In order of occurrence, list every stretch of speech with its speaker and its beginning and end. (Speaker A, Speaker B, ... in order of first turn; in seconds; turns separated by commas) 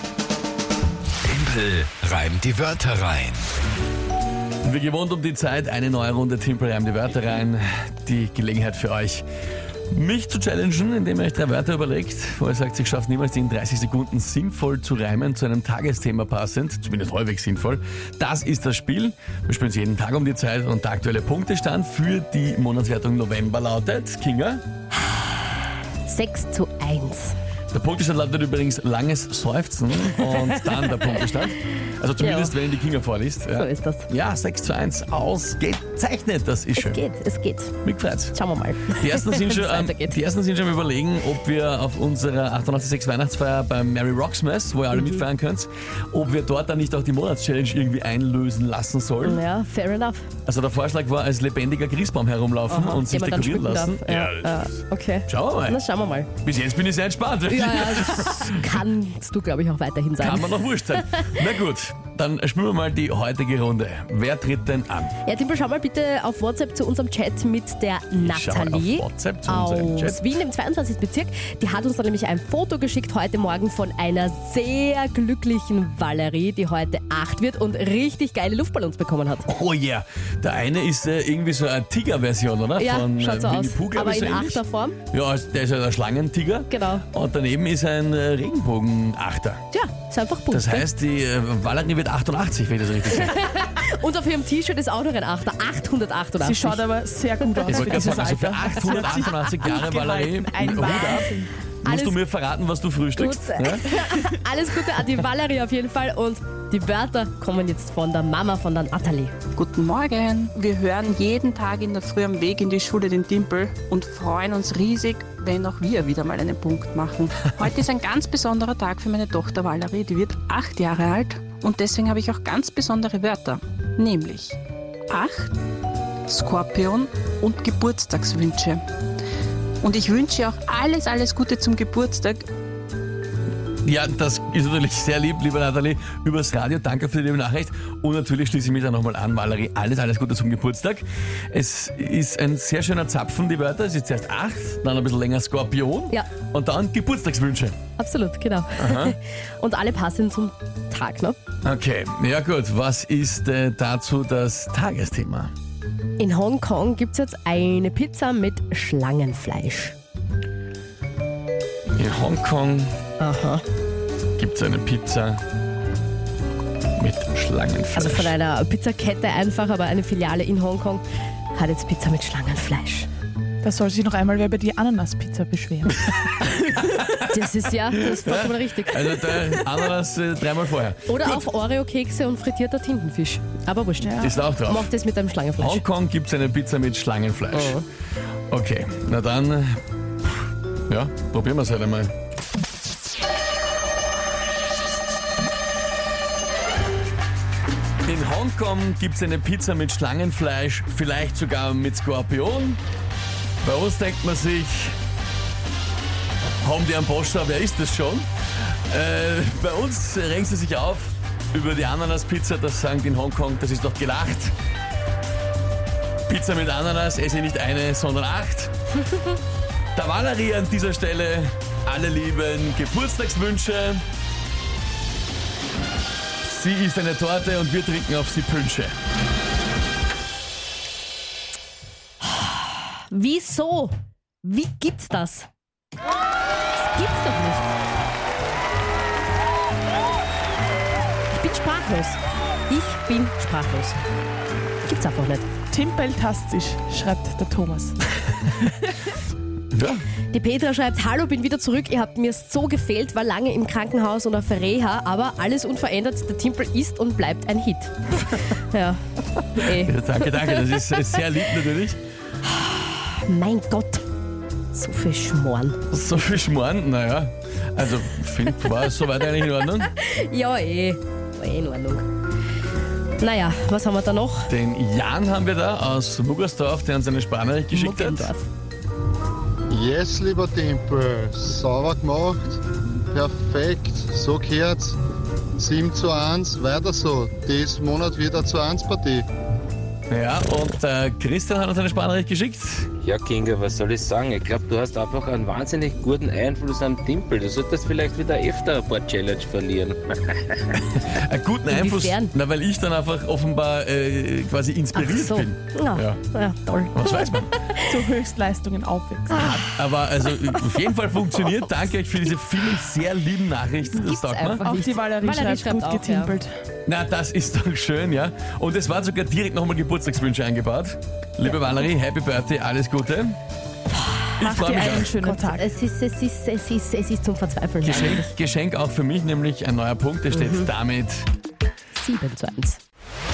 Speaker A: 1.2-3.4, Speaker B: 4.6-9.2, Speaker B: 9.9-24.6, Speaker C: 26.0-27.4, Speaker B: 27.7-37.0, Speaker C: 32.2-32.5, Speaker C: 33.5-34.1, Speaker C: 36.8-37.8, Speaker B: 37.8-38.4, Speaker C: 38.3-40.2, Speaker B: 38.9-49.4, Speaker C: 44.9-45.2, Speaker C: 49.2-50.3, Speaker B: 50.5-54.7, Speaker C: 52.7-56.3, Speaker B: 55.2-55.8, Speaker B: 56.4-58.7, Speaker C: 57.5-61.3, Speaker B: 60.2-65.1, Speaker C: 65.2-79.5, Speaker B: 68.1-70.4, Speaker B: 79.5-89.6, Speaker C: 82.8-85.0, Speaker C: 86.7-87.0, Speaker C: 89.7-90.9, Speaker B: 90.5-93.5, Speaker C: 93.1-96.9, Speaker D: 96.4-101.5, Speaker C: 97.4-99.6, Speaker B: 97.7-101.3, Speaker C: 100.8-101.3, Speaker C: 101.8-102.2, Speaker B: 101.8-104.0, Speaker C: 103.2-109.3, Speaker E: 109.5-124.6, Speaker E: 125.1-125.5, Speaker E: 126.3-128.8, Speaker E: 129.8-132.5, Speaker B: 133.8-147.8, Speaker C: 148.0-151.4, Speaker B: 148.8-149.2, Speaker B: 151.6-155.5, Speaker C: 156.2-159.9, Speaker B: 161.9-162.9, Speaker C: 163.2-163.6, Speaker B: 164.4-165.4, Speaker B: 166.9-168.3, Speaker C: 167.9-171.0, Speaker C: 171.5-173.1, Speaker D: 173.6-176.1, Speaker B: 176.5-177.3, Speaker C: 177.2-179.7, Speaker B: 178.0-181.4, Speaker C: 181.1-185.8, Speaker D: 184.0-184.3, Speaker B: 184.2-184.9, Speaker B: 185.6-187.8, Speaker C: 187.5-187.8, Speaker B: 188.5-189.8, Speaker B: 190.9-192.1, Speaker B: 198.1-202.8, Speaker B: 203.6-204.9, Speaker B: 206.6-208.3, Speaker B: 208.9-214.5, Speaker B: 216.3-218.7, Speaker B: 219.9-224.0, Speaker B: 226.4-228.9, Speaker C: 232.3-235.5, Speaker C: 236.7-237.7, Speaker C: 241.3-244.0, Speaker C: 244.8-245.5, Speaker D: 245.7-247.9, Speaker B: 249.7-250.0, Speaker C: 250.3-261.2, Speaker B: 259.6-262.0, Speaker C: 262.6-264.0, Speaker C: 264.7-265.8, Speaker B: 265.9-269.9, Speaker C: 269.4-272.1, Speaker C: 273.2-274.5, Speaker B: 274.5-278.3, Speaker C: 277.7-278.5, Speaker F: 279.7-285.0, Speaker F: 285.6-289.2, Speaker B: 290.1-292.9, Speaker G: 293.0-300.8, Speaker B: 301.0-306.2, Speaker C: 301.7-302.3, Speaker C: 304.9-308.0, Speaker B: 306.9-307.6, Speaker D: 307.9-309.6, Speaker B: 309.4-314.6, Speaker C: 313.9-316.4, Speaker D: 314.6-316.6, Speaker B: 316.9-323.4, Speaker C: 324.0-324.3, Speaker B: 324.4-325.1, Speaker D: 324.4-325.7, Speaker C: 325.1-328.3, Speaker B: 327.8-331.3, Speaker C: 330.3-330.7, Speaker C: 331.9-332.8